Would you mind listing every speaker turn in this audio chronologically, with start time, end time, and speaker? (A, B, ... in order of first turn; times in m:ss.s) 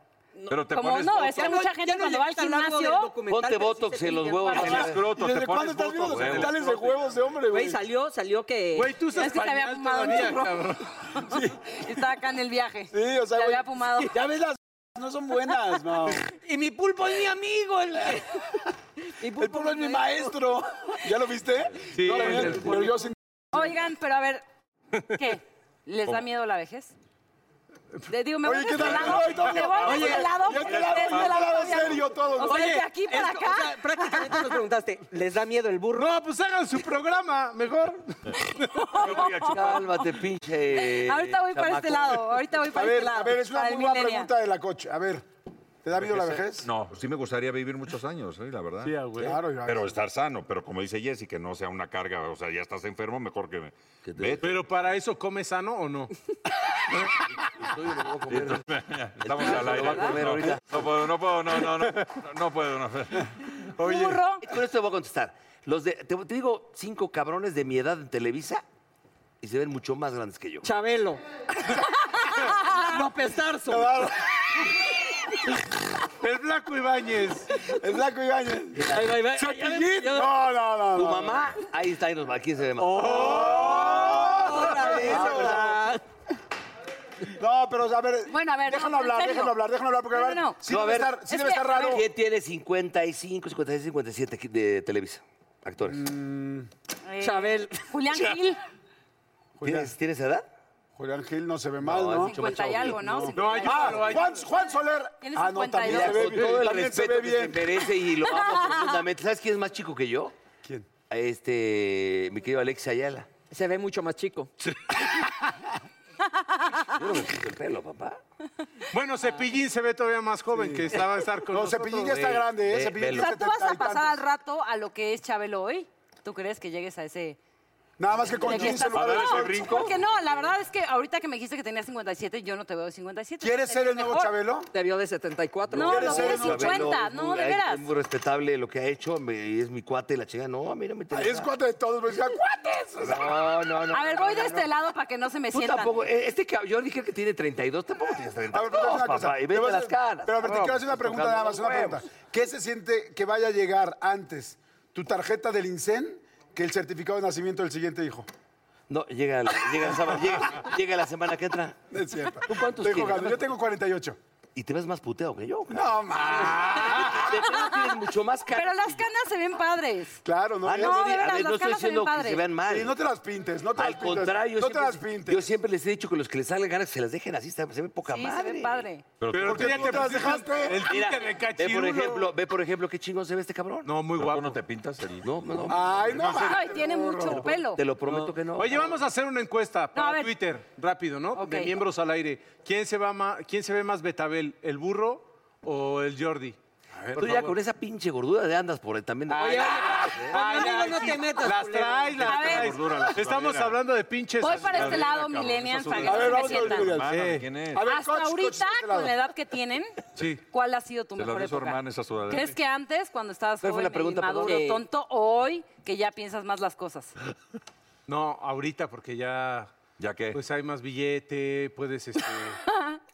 0:00.4-0:04.8 A
0:00.5-0:01.5 B
0:00.7-0:03.1 C
0:03.3-0:05.1 D
0:04.5-0:04.8 C
0:04.5-0:06.9 B
0:04.9-0:07.8 E
0:06.1-0:06.6 D
0:07.5-0:09.0 A
0:08.7-0:10.9 F
0:09.1-0:14.1 C
0:11.3-0:11.5 E
0:12.9-0:16.2 E
0:16.2-0:18.4 A
0:19.0-0:20.4 A
0:19.3-0:23.7 E
0:21.9-0:23.0 F
0:23.5-0:24.4 C
0:25.1-0:26.9 C
0:28.1-0:34.5 C
0:28.4-0:32.7 E
0:28.8-0:31.9 B
0:29.9-0:30.3 A
0:32.4-0:36.1 A
0:35.9-0:38.6 F
0:38.6-0:40.0 C
0:39.0-0:39.8 B
0:39.1-0:42.3 D
0:40.7-0:44.3 C
0:42.7-0:45.2 E
0:45.8-0:46.7 E
0:46.0-0:54.6 B
0:48.8-0:49.4 F
0:49.2-0:49.9 E
0:54.0-0:54.4 D
0:54.4-0:56.1 F
0:57.6-0:58.6 D
0:58.3-1:03.3 B
0:59.2-1:00.9 D
1:03.8-1:04.4 C
1:04.4-1:08.6 D
1:09.4-1:10.7 D
1:10.6-1:11.2 A
1:11.8-1:12.8 C
1:12.3-1:14.1 A
1:13.7-1:14.3 E
1:16.2-1:17.5 F
1:17.6-1:21.4 E
1:18.7-1:19.2 D
1:18.9-1:20.4 A
1:20.9-1:23.5 D
1:22.8-1:25.1 F
1:22.9-1:25.8 E
1:23.3-1:26.0 A
1:24.8-1:25.7 D
1:27.3-1:32.1 E
1:28.3-1:29.6 C
1:30.1-1:30.6 C
1:30.6-1:31.2 D
1:31.3-1:32.0 C
1:31.9-1:36.0 D
1:35.9-1:36.7 E
1:37.0-1:38.6 C
1:37.2-1:37.9 A
1:39.6-1:39.9 E
1:39.6-1:40.4 D
1:41.0-1:42.4 E
1:41.8-1:43.3 D
1:42.2-1:44.4 C
1:43.0-1:47.9 E
1:43.3-1:44.4 F
1:45.2-1:46.4 C
1:45.8-1:50.3 D
1:48.2-1:49.0 C
1:51.1-1:53.3 D
1:53.5-1:54.5 A
1:56.4-1:56.9 C
1:56.9-1:58.2 D
1:58.9-2:02.4 F
2:00.5-2:01.0 E
2:01.5-2:04.2 E
2:02.1-2:03.3 D
2:03.1-2:07.4 C
2:08.0-2:09.8 E
2:08.3-2:14.3 C
2:08.5-2:10.0 B
2:13.4-2:14.7 E
2:14.7-2:16.2 A
2:15.7-2:17.9 C
2:15.7-2:21.5 D
2:15.8-2:17.0 E
2:21.1-2:23.5 E
2:23.0-2:24.7 D
2:23.9-2:25.9 C
2:25.5-2:32.0 D
2:28.5-2:38.3 E
2:30.4-2:30.8 F
2:38.9-2:41.8 D
2:41.9-2:44.2 E
2:42.4-2:43.4 D
2:44.6-2:49.0 D
2:45.7-2:47.4 E
2:48.5-2:50.2 C
2:50.2-2:51.1 E
2:50.6-2:53.0 D
2:50.7-2:52.4 C
2:52.7-2:55.5 E
2:53.7-2:58.8 D
2:58.0-2:59.0 C
2:59.2-3:00.4 B
2:59.3-3:02.3 F
2:59.4-3:00.9 E
3:00.8-3:03.9 D
3:03.8-3:04.6 F
3:04.2-3:05.3 B
3:05.2-3:06.5 D
3:05.7-3:07.5 E
3:06.2-3:06.5 B
3:06.4-3:07.8 C
3:07.2-3:08.9 D
3:08.1-3:17.6 F
3:09.9-3:10.3 C
3:11.3-3:11.7 C
3:17.2-3:20.4 D
3:19.3-3:22.4 A
3:19.3-3:25.1 F
3:22.2-3:22.7 C
3:22.4-3:23.8 B
3:24.4-3:26.9 C
3:24.4-3:27.8 B
3:26.0-3:29.1 E
3:27.1-3:27.5 F
3:27.8-3:37.1 C
3:31.2-3:32.6 B
3:33.6-3:34.7 D
3:34.4-3:34.8 A
3:38.1-3:39.7 F
3:40.0-3:40.4 B
3:40.3-3:42.6 F
3:42.7-3:43.0 C